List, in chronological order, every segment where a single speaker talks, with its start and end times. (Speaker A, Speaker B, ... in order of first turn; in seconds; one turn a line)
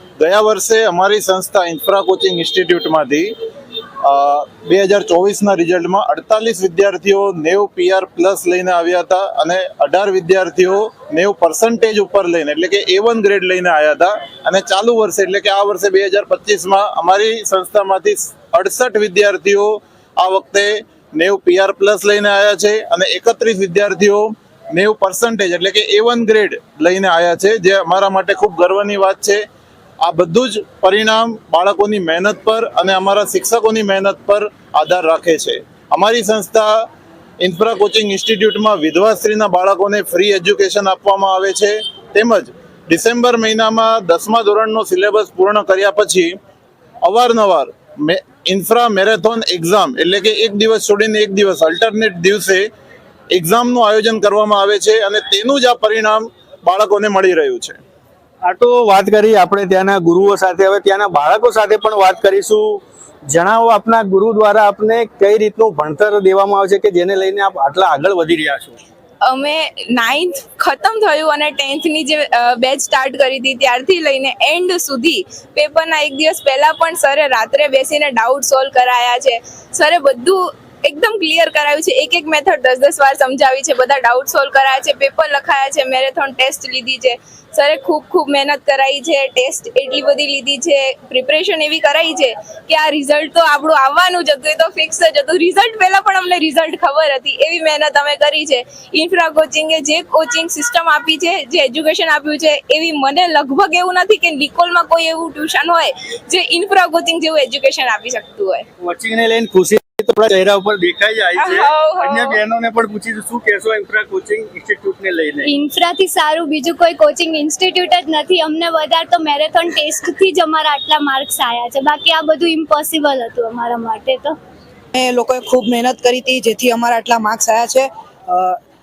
Speaker A: 0.2-3.3
Speaker A: 4.0-29.4
Speaker A: 30.0-36.7
Speaker A: 37.4-46.3
Speaker A: 47.0-52.6
Speaker A: 53.3-57.8
Speaker B: 58.5-68.8
Speaker C: 69.3-108.7
Speaker B: 108.8-115.5
Speaker C: 111.4-112.3
Speaker D: 115.4-124.4
Speaker E: 124.9-128.6